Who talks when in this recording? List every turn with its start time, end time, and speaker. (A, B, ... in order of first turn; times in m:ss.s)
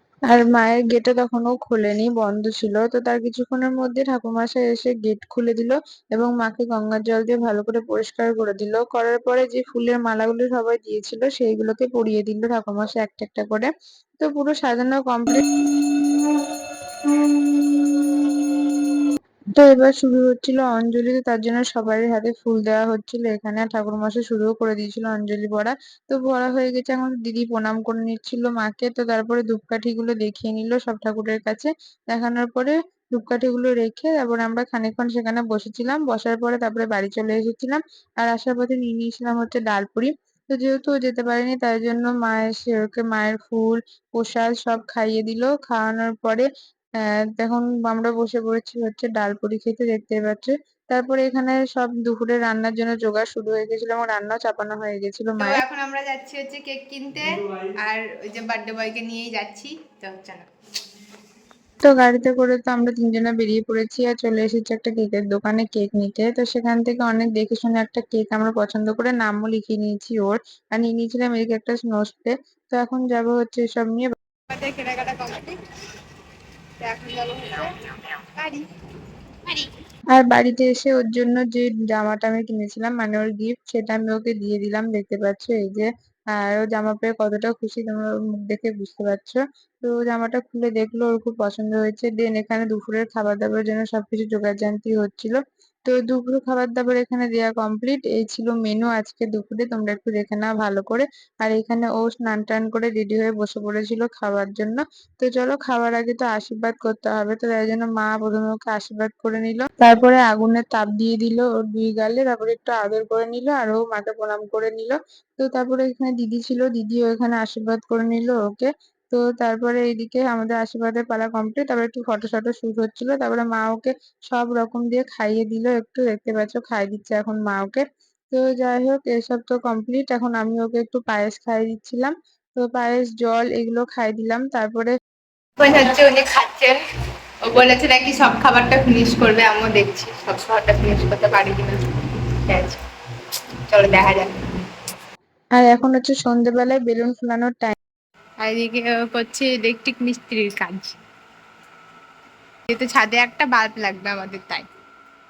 0:00.3-0:13.7 A
0:14.2-0:15.5 A
0:19.6-0:46.5 A
0:47.1-0:55.6 A
0:55.4-1:00.5 B
1:01.8-1:14.1 A
1:14.5-1:15.6 B
1:16.8-1:17.7 B
1:18.4-1:18.6 B
1:20.1-2:14.9 A
2:15.6-2:16.8 B
2:17.4-2:21.8 B
2:22.5-2:22.8 B
2:23.7-2:24.6 B
2:25.6-2:27.8 A
2:28.4-2:31.0 B
2:32.7-2:34.7 B